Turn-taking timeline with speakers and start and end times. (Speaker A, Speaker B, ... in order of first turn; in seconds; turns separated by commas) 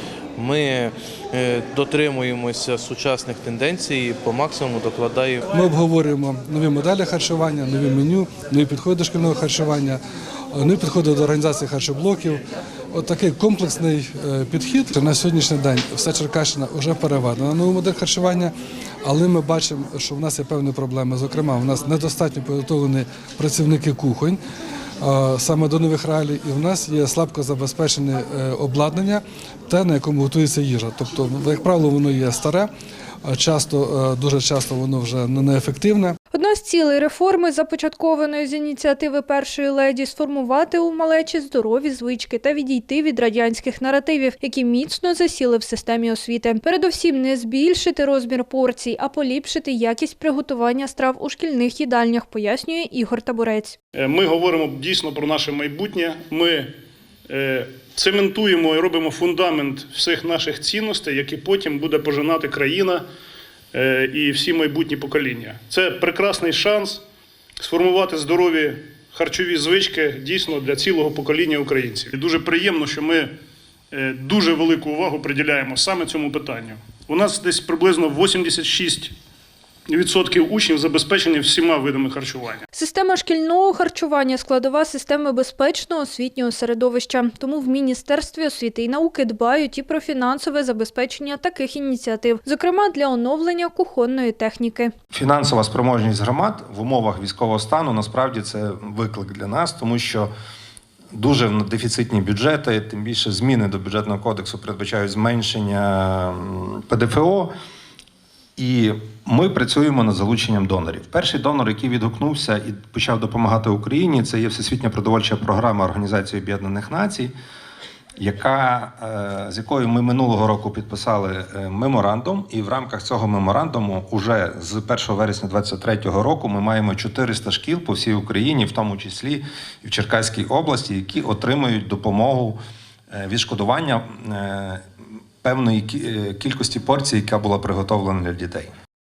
Speaker A: 0.4-5.4, Speaker B: 5.5-10.0, Speaker B: 10.5-12.4, Speaker B: 12.9-18.5, Speaker B: 19.1-24.4, Speaker B: 25.0-32.7, Speaker B: 33.3-36.2, Speaker C: 36.3-53.8, Speaker D: 54.0-56.7, Speaker D: 57.3-63.0, Speaker D: 63.7-67.0, Speaker D: 67.6-73.3, Speaker D: 73.9-79.1, Speaker D: 79.9-82.6, Speaker C: 82.7-94.9, Speaker E: 95.1-100.3, Speaker E: 101.1-107.5, Speaker E: 108.6-117.3, Speaker E: 118.2-132.6, Speaker E: 133.1-134.8, Speaker E: 135.4-138.7